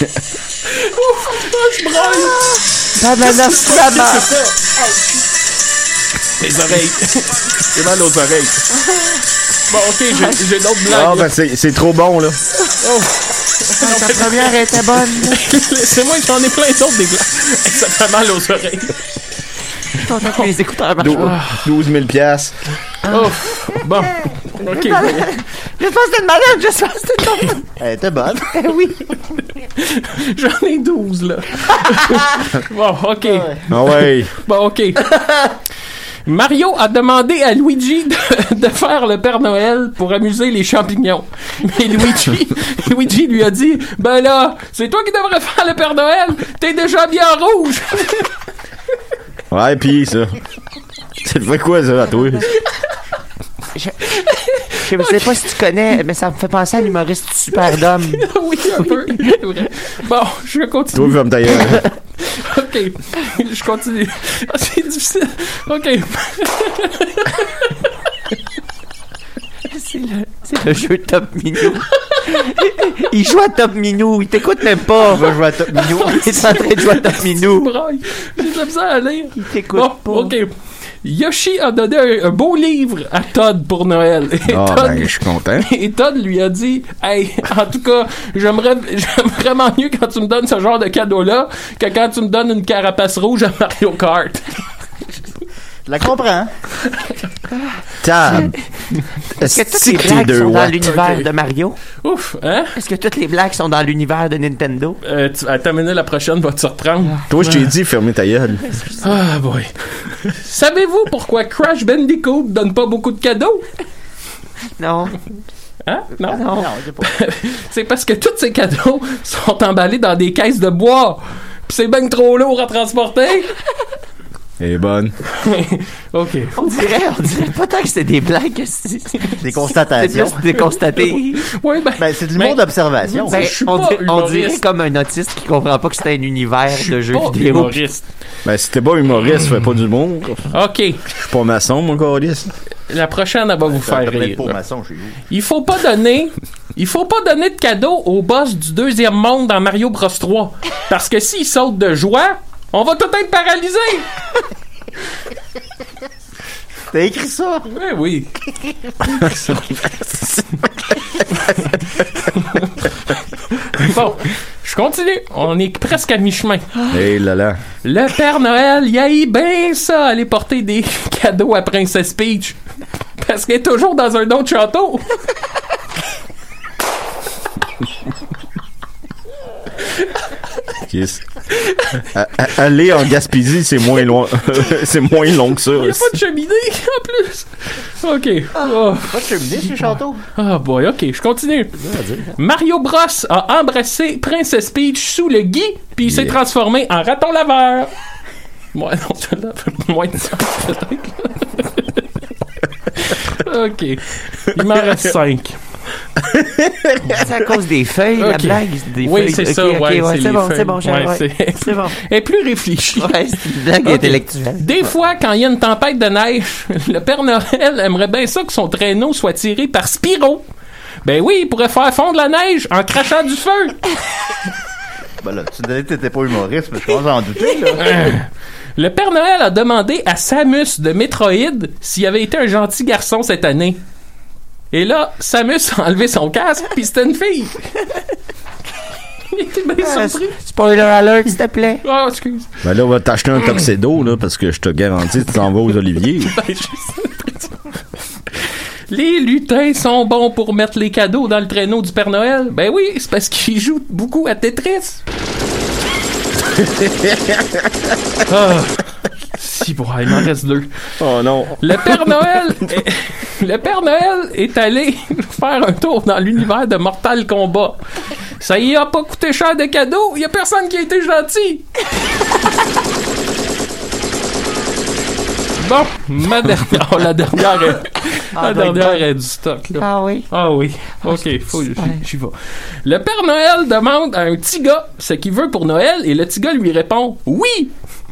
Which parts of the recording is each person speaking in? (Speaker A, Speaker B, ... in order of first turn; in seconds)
Speaker A: 0.6-5.2, 6.4-8.7, 9.7-11.3, 12.8-19.0, 21.1-21.7, 23.0-25.3, 29.8-33.8, 34.4-35.1, 36.2-48.3, 54.1-55.3, 58.0-61.7, 62.2-67.7, 72.0-72.7, 75.3-94.6, 100.8-101.3, 102.0-102.7, 105.0-107.6, 109.0-113.7, 115.8-123.5, 125.3-126.7, 130.6-134.6, 136.9-138.1, 140.5-141.0, 142.9-144.6, 145.3-154.1, 157.7-158.3, 159.0-160.4, 162.3-162.9, 163.6-166.9, 167.8-172.6, 173.2-175.2, 185.7-191.8, 192.3-197.9, 198.7-202.1, 202.9-205.6, 208.2-220.4, 221.0-223.8, 227.8-233.8, 234.7-237.7, 239.3-240.4, 241.8-242.5, 246.2-247.5, 248.9-255.0, 258.2-258.8, 259.3-260.7, 261.6-267.8, 268.4-271.8, 275.6-287.7
Speaker B: 2.9-4.3, 13.8-15.4, 19.9-21.4, 24.6-27.6, 28.5-29.0, 53.7-54.0, 54.8-58.2, 69.7-75.3, 76.0-77.7, 79.3-80.3, 98.3-98.5, 99.4-101.8, 102.7-105.0, 114.8-115.2, 116.3-116.7, 126.6-129.4, 129.9-131.5, 133.3-137.8, 191.8-192.3, 207.0-212.0, 213.0-214.9, 239.8-241.8, 278.3-279.0, 279.7-280.3, 281.0-282.0
Speaker C: 10.8-12.4, 21.0-22.6, 33.7-34.3, 49.5-50.4, 51.2-52.5, 60.9-61.8, 84.4-85.7, 98.0-98.5, 99.4-100.9, 107.3-108.8, 124.6-125.1, 138.4-140.5, 141.1-142.5, 166.9-167.6, 180.8-181.4, 182.0-186.2, 196.1-196.4, 206.2-207.0, 242.6-246.3, 256.8-257.9, 261.0-262.1
Speaker D: 27.8-28.6, 33.2-33.6, 75.0-76.4, 95.8-96.5, 116.3-117.1, 129.4-130.6, 132.0-133.5, 143.7-145.2, 156.9-157.7, 188.6-190.2, 225.2-228.1